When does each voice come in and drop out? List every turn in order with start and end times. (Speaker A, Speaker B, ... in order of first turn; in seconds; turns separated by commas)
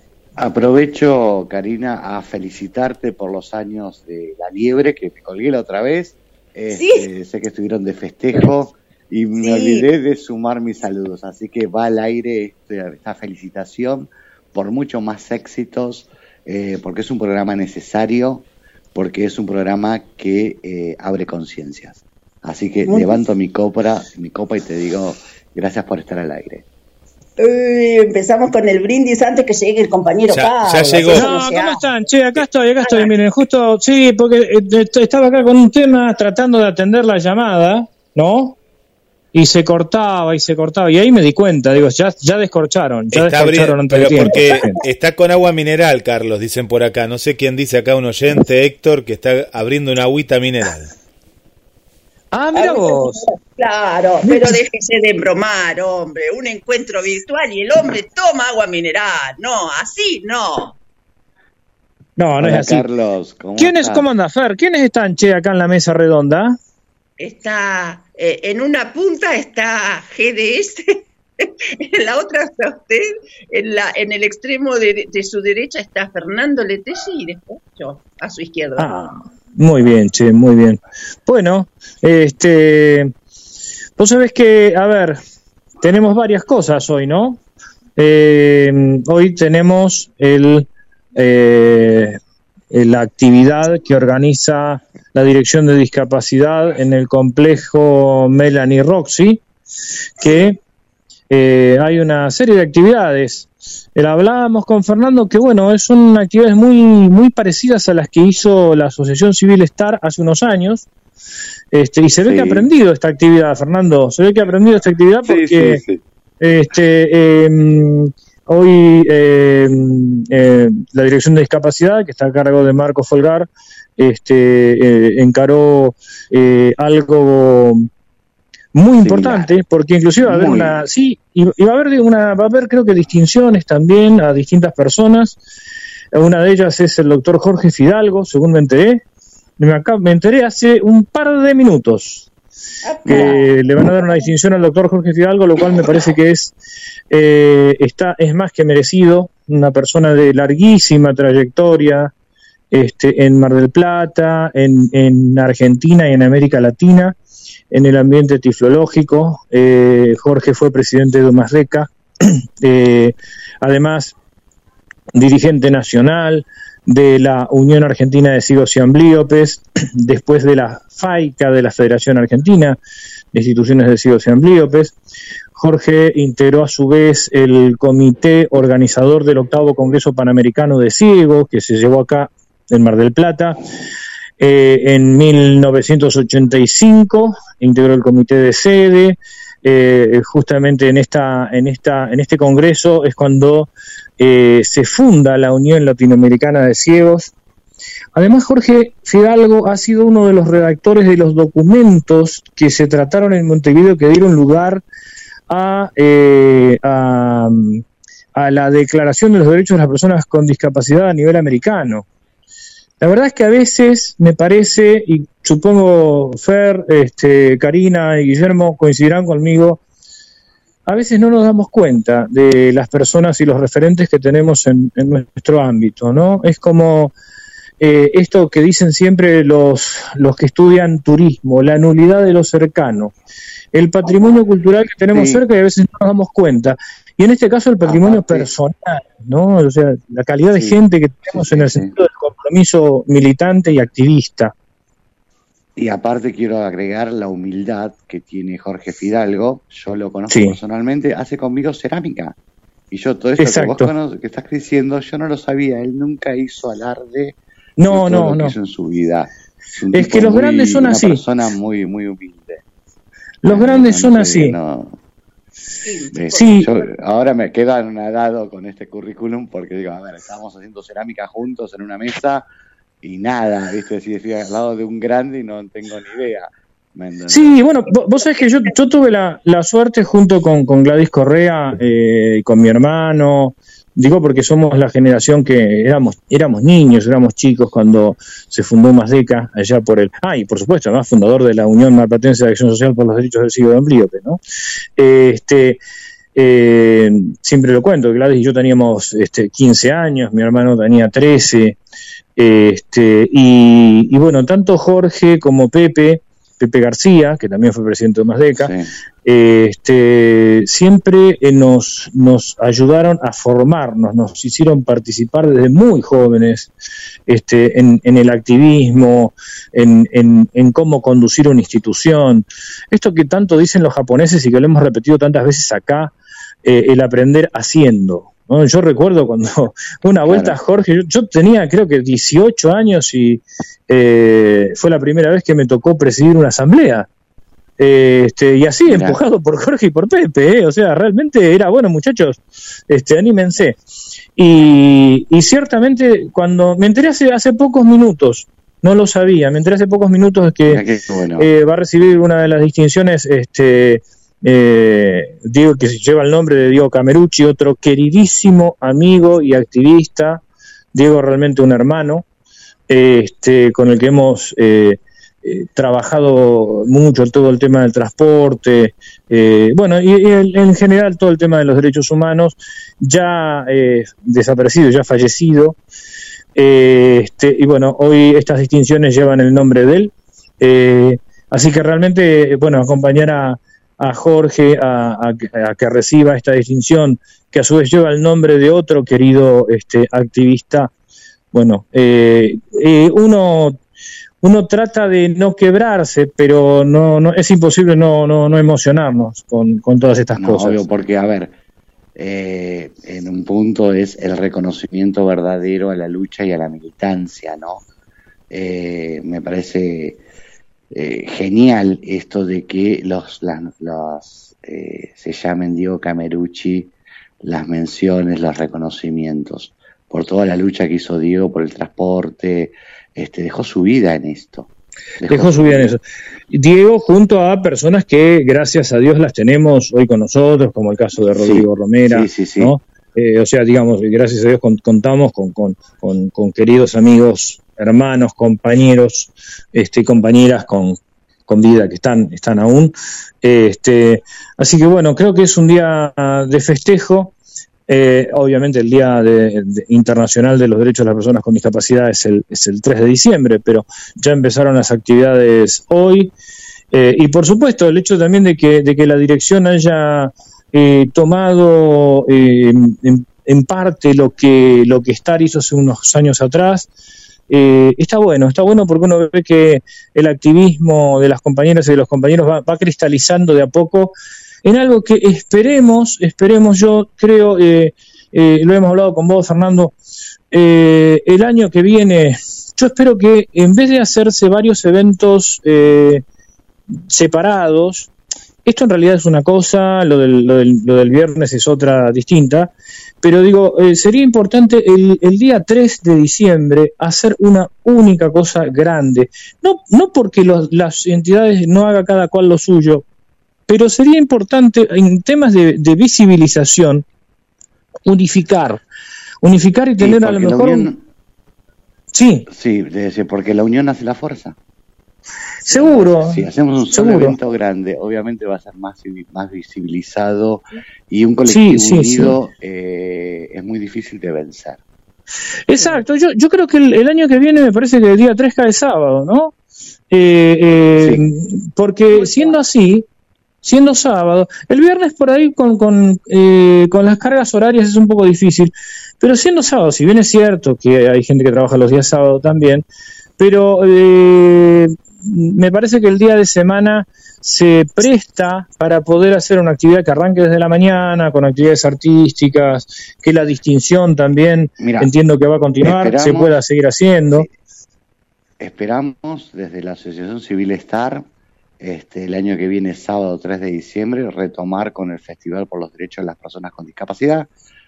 Speaker A: 0.4-26.6, Speaker B: 6.7-7.0, Speaker B: 9.4-9.9, Speaker B: 22.9-23.2, Speaker B: 27.4-31.9, Speaker C: 30.3-31.3, Speaker D: 31.1-38.6, Speaker B: 32.8-33.1, Speaker D: 39.3-44.8, Speaker C: 43.1-50.9, Speaker D: 52.3-53.2, Speaker B: 52.5-60.8, Speaker D: 54.2-54.6, Speaker D: 62.2-62.9, Speaker A: 62.4-64.1, Speaker D: 63.6-66.6, Speaker B: 67.2-78.9, Speaker D: 78.8-83.1, Speaker D: 84.0-85.2, Speaker D: 85.8-87.4, Speaker D: 88.0-92.2, Speaker D: 92.7-99.4, Speaker D: 100.2-100.6, Speaker D: 101.3-110.9, Speaker D: 111.7-115.8, Speaker A: 112.2-112.7, Speaker A: 115.2-116.0, Speaker D: 116.4-127.9, Speaker D: 128.7-135.4, Speaker A: 129.0-129.6, Speaker A: 130.2-130.9, Speaker D: 136.1-139.0, Speaker D: 139.6-142.3, Speaker B: 142.8-144.2, Speaker D: 143.0-146.6, Speaker A: 143.1-143.4, Speaker D: 147.1-152.1, Speaker D: 152.7-157.2, Speaker D: 157.7-164.1, Speaker D: 165.1-172.8, Speaker D: 173.3-174.9, Speaker D: 175.5-183.6, Speaker D: 184.4-197.3, Speaker D: 198.1-204.8, Speaker D: 205.5-212.1, Speaker D: 213.0-219.8, Speaker D: 220.9-227.1, Speaker D: 227.8-233.1, Speaker D: 233.7-244.5, Speaker A: 235.1-235.4, Speaker A: 237.8-238.5, Speaker A: 240.5-242.0, Speaker A: 245.8-252.3, Speaker D: 250.3-250.6, Speaker A: 252.9-262.6, Speaker D: 253.4-253.9, Speaker D: 257.8-258.5, Speaker D: 259.9-261.2, Speaker D: 263.4-264.6, Speaker A: 263.4-265.0, Speaker B: 265.8-266.9, Speaker A: 266.1-272.4, Speaker D: 266.3-266.7, Speaker A: 273.0-277.7, Speaker D: 277.3-294.4, Speaker D: 295.0-295.8, Speaker D: 296.3-301.8, Speaker D: 302.4-308.7, Speaker A: 308.5-308.9, Speaker D: 309.2-316.7, Speaker D: 317.3-326.1, Speaker D: 326.6-337.1, Speaker A: 330.2-330.6, Speaker D: 337.8-343.8, Speaker A: 338.9-339.2, Speaker D: 344.4-350.8, Speaker A: 350.6-351.5, Speaker D: 351.4-360.4, Speaker D: 360.9-362.2, Speaker D: 362.9-375.8, Speaker D: 376.6-390.9, Speaker D: 391.5-393.8, Speaker D: 394.4-400.8, Speaker A: 400.3-401.5, Speaker A: 402.1-407.8, Speaker A: 408.5-410.2, Speaker A: 410.9-426.0, Speaker D: 425.3-447.3, Speaker A: 431.3-432.7, Speaker D: 447.9-456.3, Speaker D: 456.9-466.9, Speaker D: 467.5-479.9, Speaker D: 480.5-486.2, Speaker D: 487.1-488.1, Speaker D: 488.6-503.0, Speaker D: 503.7-507.0, Speaker D: 508.1-508.8, Speaker D: 509.4-510.9, Speaker A: 510.0-511.0, Speaker D: 512.1-512.5, Speaker A: 512.5-514.5, Speaker A: 515.6-524.8, Speaker D: 515.6-517.4, Speaker D: 521.5-522.4, Speaker D: 525.7-529.5, Speaker D: 530.1-533.0, Speaker A: 531.0-531.3, Speaker D: 533.6-542.8, Speaker D: 543.4-557.5, Speaker A: 554.8-555.1, Speaker A: 555.8-556.5, Speaker A: 558.6-561.3, Speaker A: 561.8-567.5